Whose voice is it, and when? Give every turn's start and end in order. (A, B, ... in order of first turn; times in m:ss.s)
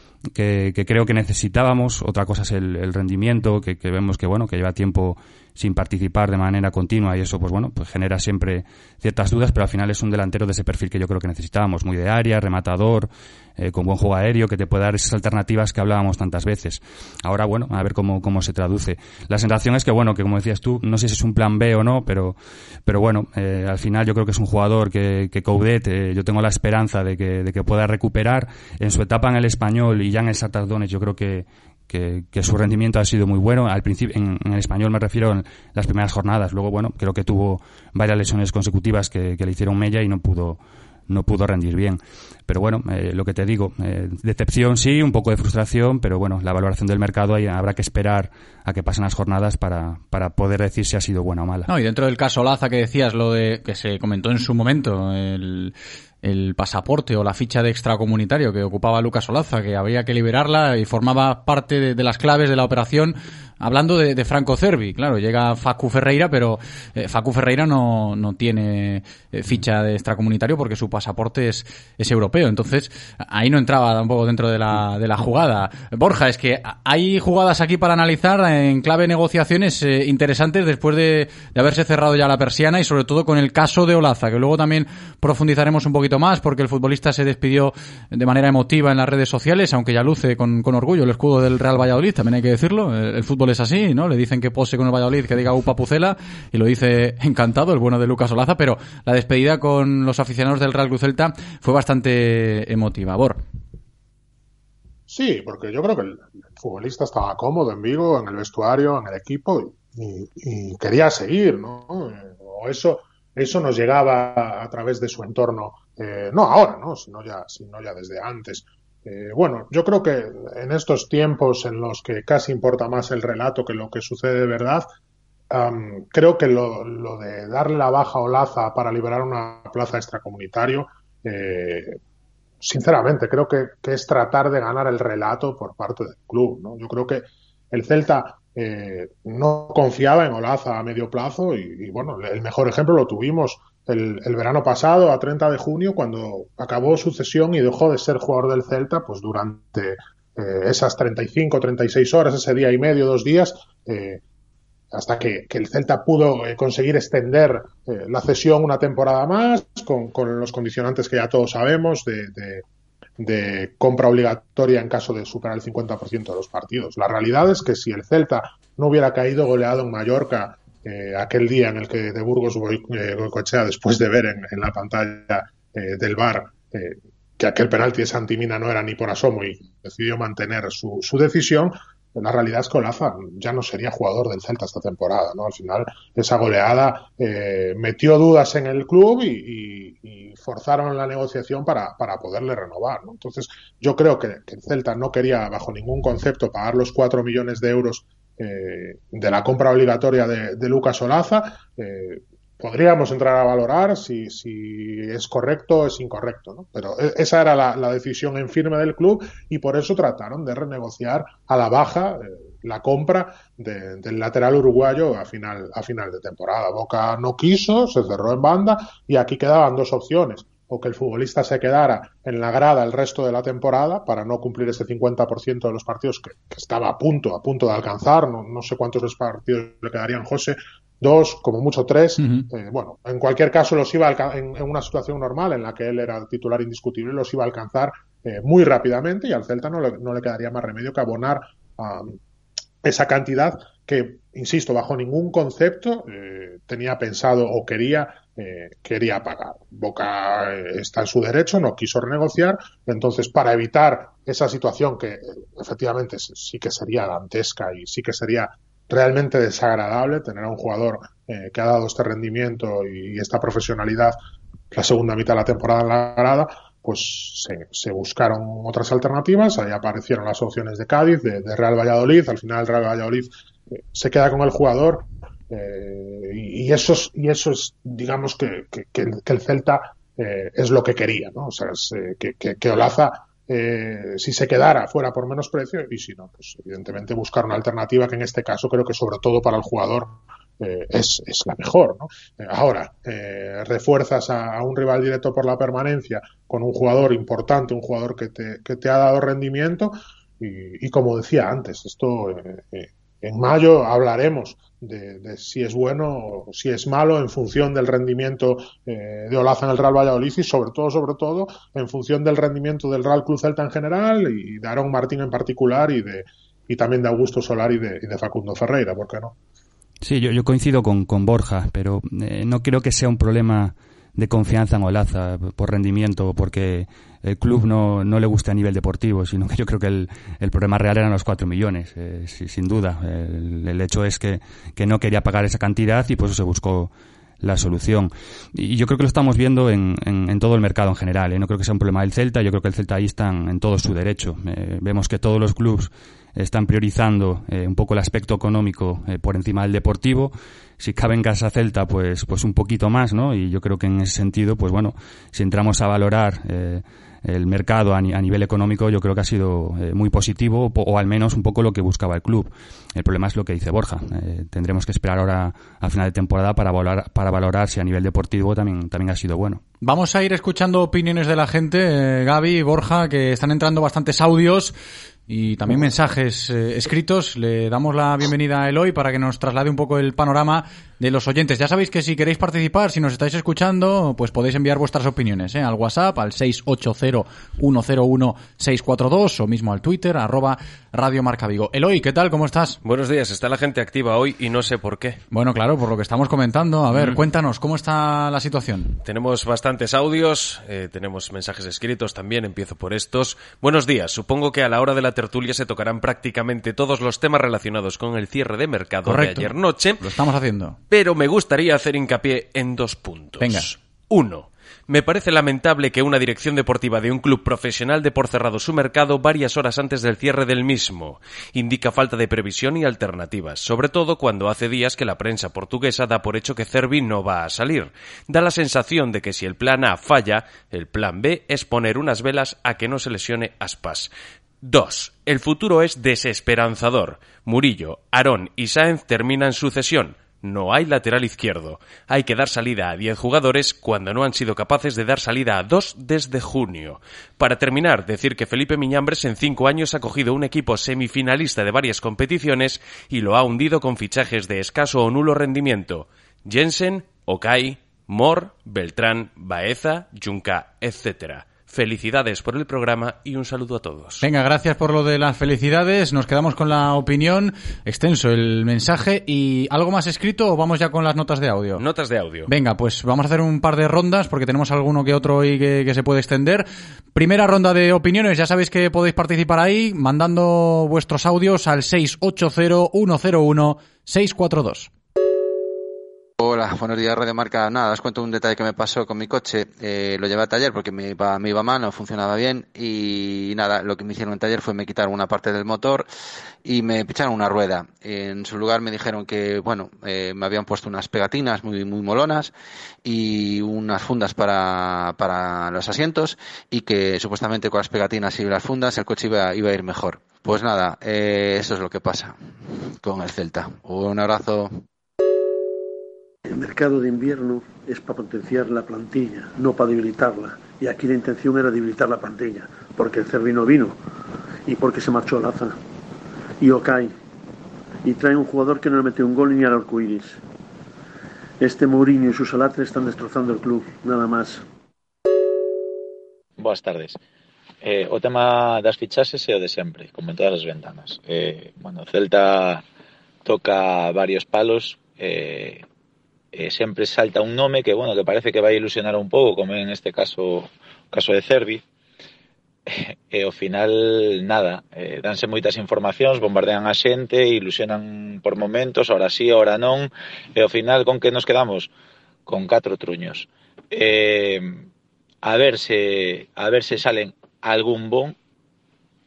0:00.3-0:51.7 A
0:51.7-1:43.4 B
1:45.1-2:04.8 C
2:05.5-2:12.0 C
2:12.6-2:34.2 C
2:34.9-2:42.6 C
2:43.2-4:02.2 C
3:52.2-3:52.5 B
4:02.8-4:24.1 C
4:24.7-4:33.3 C
4:33.9-5:19.3 C
5:20.0-6:09.6 A
6:09.8-6:14.7 B
6:15.3-6:32.8 B
6:32.8-6:35.2 D
6:35.3-6:38.9 B
6:39.0-6:50.0 D
6:49.0-6:50.8 B
6:50.9-7:14.1 D
6:53.4-6:53.7 B
7:14.6-7:44.2 D
7:44.2-7:51.8 B
7:51.8-7:52.5 D
7:52.5-8:04.9 B
8:06.4-8:16.1 E
8:16.6-8:22.5 E
8:23.0-8:34.8 E
8:36.5-8:44.0 F
8:44.7-8:45.8 F
8:46.6-8:47.1 F
8:48.0-8:50.4 F
8:51.6-8:54.6 F
8:56.6-8:57.2 G
8:57.8-9:02.8 G
9:03.4-9:05.8 G
9:06.5-9:11.8 G
9:12.9-9:21.9 G
9:22.4-9:24.9 G
9:25.4-9:28.4 G